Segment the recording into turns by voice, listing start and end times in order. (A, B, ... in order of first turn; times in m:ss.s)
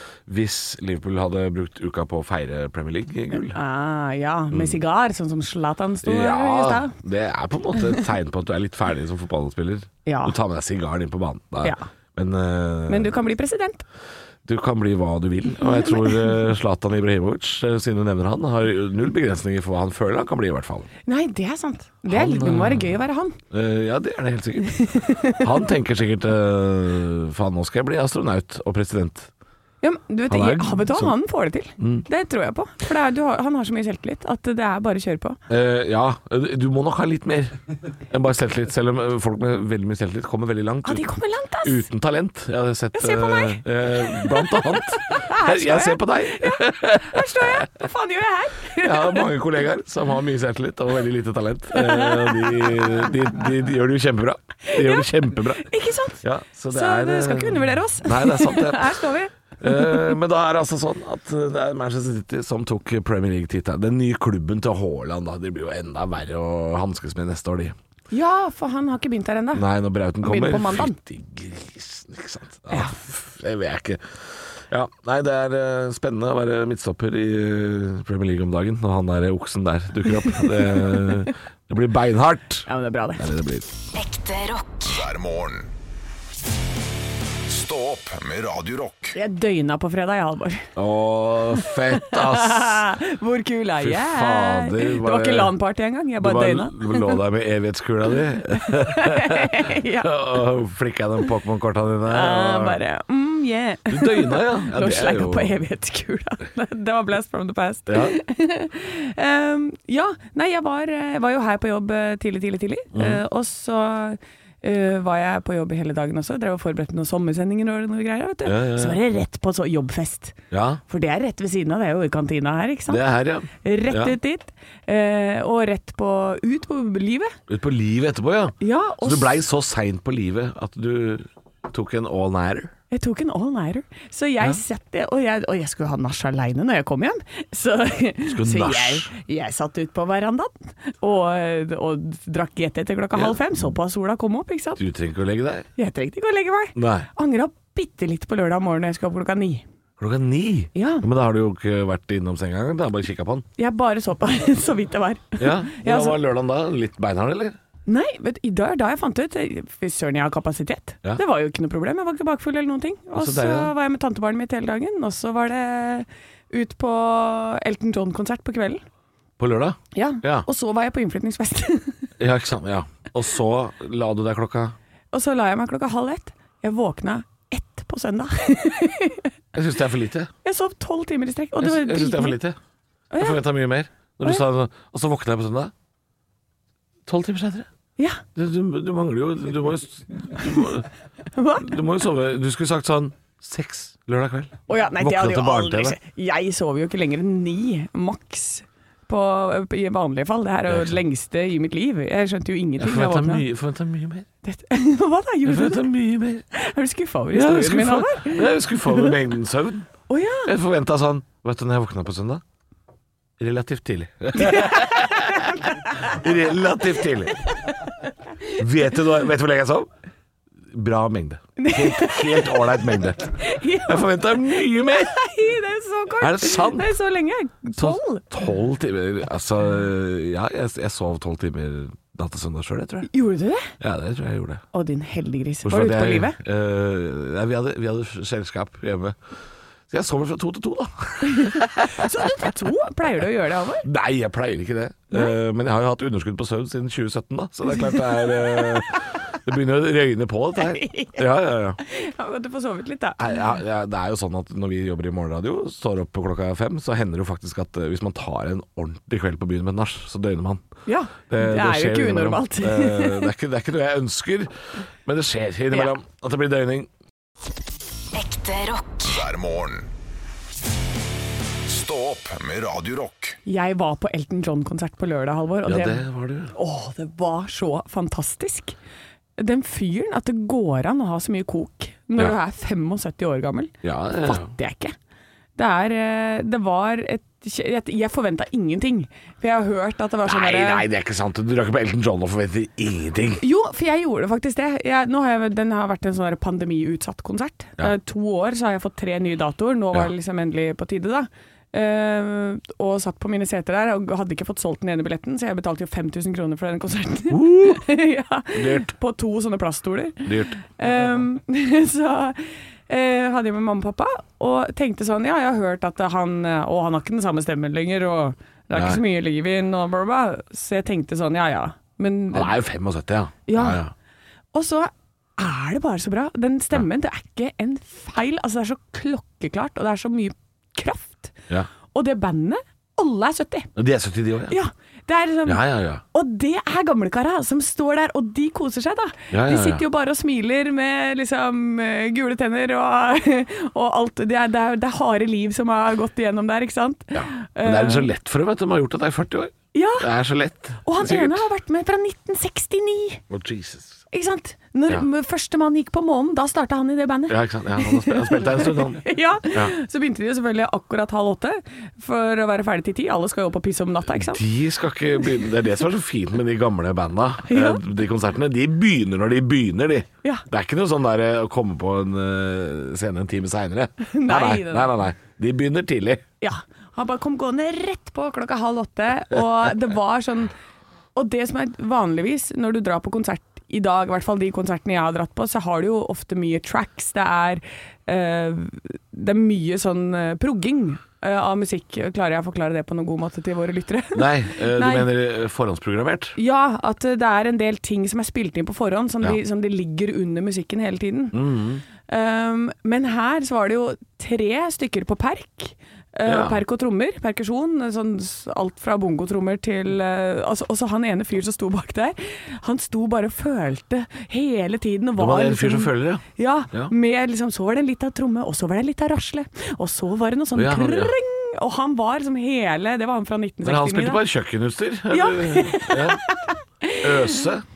0:00.3-0:03.6 A
0:03.5-0:06.9 B
0:04.5-0:04.8 A
0:06.0-0:13.1 A
0:10.0-0:10.4 B
0:12.9-0:13.8 B
0:14.4-0:20.9 A
0:15.6-0:16.4 B
0:21.1-0:23.4 B
0:22.1-0:23.0 A
0:23.5-0:29.3 A
0:24.8-0:25.4 B
0:29.8-0:35.4 B
0:30.3-0:31.1 A
0:31.8-0:32.0 A
0:35.5-0:37.6 A
0:38.1-0:41.1 A
0:40.8-0:41.8 B
0:41.6-0:47.7 A
0:42.9-0:49.3 B
0:48.8-0:55.7 A
0:51.7-0:53.1 B
0:54.6-1:00.1 B
0:56.2-0:59.1 A
0:59.6-1:07.7 A
1:08.1-1:09.6 B
1:09.5-1:23.7 A
1:10.2-1:11.0 B
1:12.7-1:13.0 B
1:20.2-1:21.2 B
1:22.7-1:23.2 B
1:23.9-1:24.9 C
1:24.8-1:25.7 D
1:27.4-1:29.1 D
1:29.1-1:30.7 B
1:30.8-1:32.8 A
1:31.6-1:37.2 B
1:33.8-1:35.5 A
1:36.2-1:42.8 A
1:38.4-1:40.2 B
1:42.1-2:00.4 B
1:43.9-1:45.6 A
1:47.9-1:48.2 A
1:52.9-1:53.2 A
1:58.4-1:59.0 A
2:00.5-2:00.8 A
2:00.9-2:03.0 B
2:02.9-2:04.2 A
2:03.6-2:07.3 B
2:07.5-2:12.7 A
2:08.6-2:09.4 B
2:12.9-2:24.8 B
2:18.2-2:19.1 A
2:23.1-2:23.7 A
2:24.8-2:25.7 A
2:25.8-2:29.6 B
2:26.7-2:27.1 A
2:30.0-2:33.4 A
2:30.7-2:31.0 B
2:33.6-2:36.2 B
2:35.4-2:37.6 A
2:37.9-2:48.8 B
2:43.1-2:43.7 A
2:49.4-2:50.4 A
2:49.9-2:52.0 B
2:52.2-2:54.8 A
2:55.1-2:59.3 B
2:59.5-3:00.3 A
3:00.4-3:02.4 B
3:01.6-3:02.6 A
3:03.1-3:03.4 B
3:03.2-3:05.7 A
3:07.0-3:07.7 A
3:08.3-3:10.9 A
3:11.3-3:11.8 B
3:11.6-3:16.0 A
3:14.7-3:23.4 B
3:20.7-3:21.0 A
3:22.8-3:24.3 A
3:24.4-3:25.9 B
3:25.4-3:26.4 A
3:26.5-3:29.1 B
3:27.3-3:29.9 A
3:30.1-3:30.5 B
3:30.4-3:32.4 A
3:33.4-3:37.4 A
3:34.4-3:36.0 B
3:37.6-3:37.9 B
3:38.6-3:39.9 A
3:40.7-3:45.1 A
3:41.6-3:48.2 B
3:46.2-3:46.9 A
3:47.8-3:53.1 A
3:53.1-3:53.7 B
3:53.8-3:54.6 A
3:54.7-3:56.4 B
3:55.6-3:59.2 A
3:59.9-4:02.4 A
4:01.2-4:03.9 B
4:03.8-4:11.8 A
4:08.0-4:08.6 B
4:10.6-4:11.2 B
4:11.8-4:13.4 B
4:13.2-4:20.6 A
4:20.8-4:23.3 B
4:21.3-4:24.5 A
4:25.0-4:26.9 A
4:28.1-4:29.1 C
4:29.0-4:29.9 D
4:31.6-4:33.4 D
4:33.4-4:36.0 B
4:35.6-4:36.5 A
4:36.5-4:38.8 B
4:39.4-4:44.9 B
4:43.8-4:44.5 A
4:45.6-4:50.8 B
4:50.2-4:53.4 A
4:53.4-5:22.5 B
5:07.3-5:07.8 A
5:08.5-5:08.9 A
5:10.2-5:10.6 A
5:18.7-5:19.0 A
5:22.3-5:23.9 A
5:23.5-5:23.8 B
5:24.5-5:31.3 B
5:31.9-5:33.7 B
5:33.8-5:34.6 A
5:34.5-5:48.1 B
5:35.4-5:36.0 A
5:39.3-5:39.8 A
5:47.1-5:51.4 A
5:49.7-5:50.1 B
5:50.8-5:53.2 B
5:53.3-5:54.0 A
5:54.1-6:04.4 B
5:57.3-5:59.7 A
6:04.1-6:16.2 A
6:07.4-6:07.8 B
6:14.0-6:14.9 B
6:16.4-6:20.5 B
6:21.1-6:35.1 B
6:34.1-6:36.4 A
6:36.4-6:41.4 B
6:41.3-6:41.8 A
6:42.1-7:04.2 B
6:46.2-6:46.6 A
6:55.2-6:56.9 A
7:00.5-7:01.1 A
7:03.6-7:06.2 A
7:05.1-7:07.4 B
7:07.0-7:07.6 A